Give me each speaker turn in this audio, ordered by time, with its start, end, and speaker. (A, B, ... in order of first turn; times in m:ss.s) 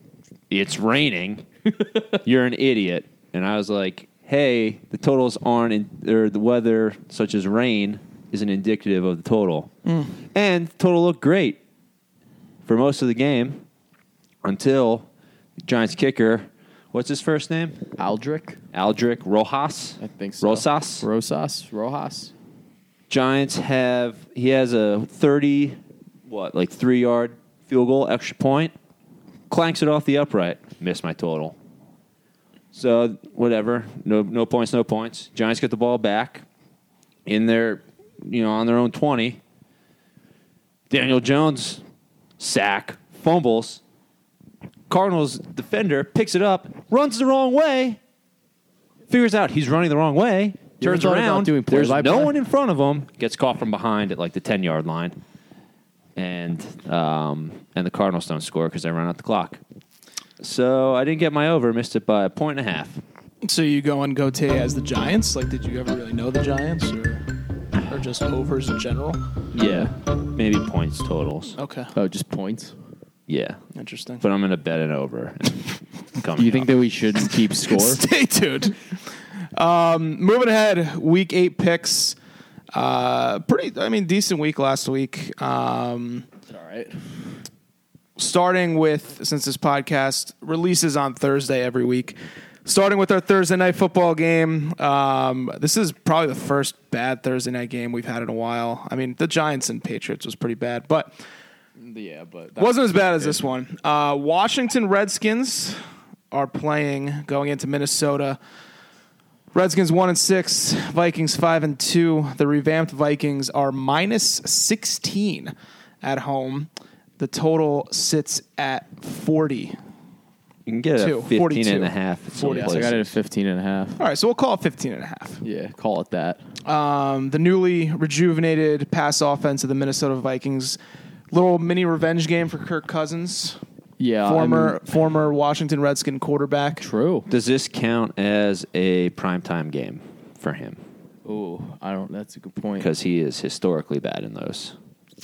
0:00.5-0:01.4 A
0:02.2-0:09.7 A
0:10.3-0:11.6 A
0:12.6-0:13.6 A
0:14.4-0:15.1 A
0:15.6-0:17.8 A
0:18.0-0:18.6 B
0:18.7-0:21.0 A
0:20.0-0:22.3 B
0:23.1-0:28.7 A
0:29.5-0:31.6 A
0:32.7-0:36.4 A
0:37.2-0:39.4 A
0:40.9-0:41.8 A
0:42.4-0:43.8 A
0:44.9-0:48.0 A
0:49.1-0:55.2 A
0:50.8-0:52.3 B
0:56.2-0:59.6 A
1:00.4-1:03.0 A
1:03.4-1:07.2 C
1:07.9-1:09.2 C
1:09.5-1:09.9 B
1:09.6-1:11.6 A
1:11.6-1:11.9 C
1:11.9-1:12.7 B
1:13.3-1:13.6 A
1:13.7-1:14.2 C
1:14.2-1:16.7 A
1:16.4-1:18.0 B
1:17.7-1:18.8 C
1:19.5-1:22.2 C
1:22.7-1:26.2 C
1:26.5-1:27.0 B
1:28.2-1:41.1 C
1:41.8-1:43.4 B
1:42.6-1:45.8 C
1:46.3-1:48.4 C
1:49.5-1:59.8 C
2:00.6-2:03.1 A
2:01.0-2:02.9 C
2:02.4-2:04.0 B
2:04.0-2:05.4 C
2:05.4-2:06.4 B
2:06.6-2:10.8 C
2:11.3-2:13.6 C
2:14.0-2:14.8 B
2:14.2-2:16.8 C
2:16.8-2:17.3 B
2:17.3-2:20.8 A
2:21.2-2:22.9 B
2:22.8-2:24.7 A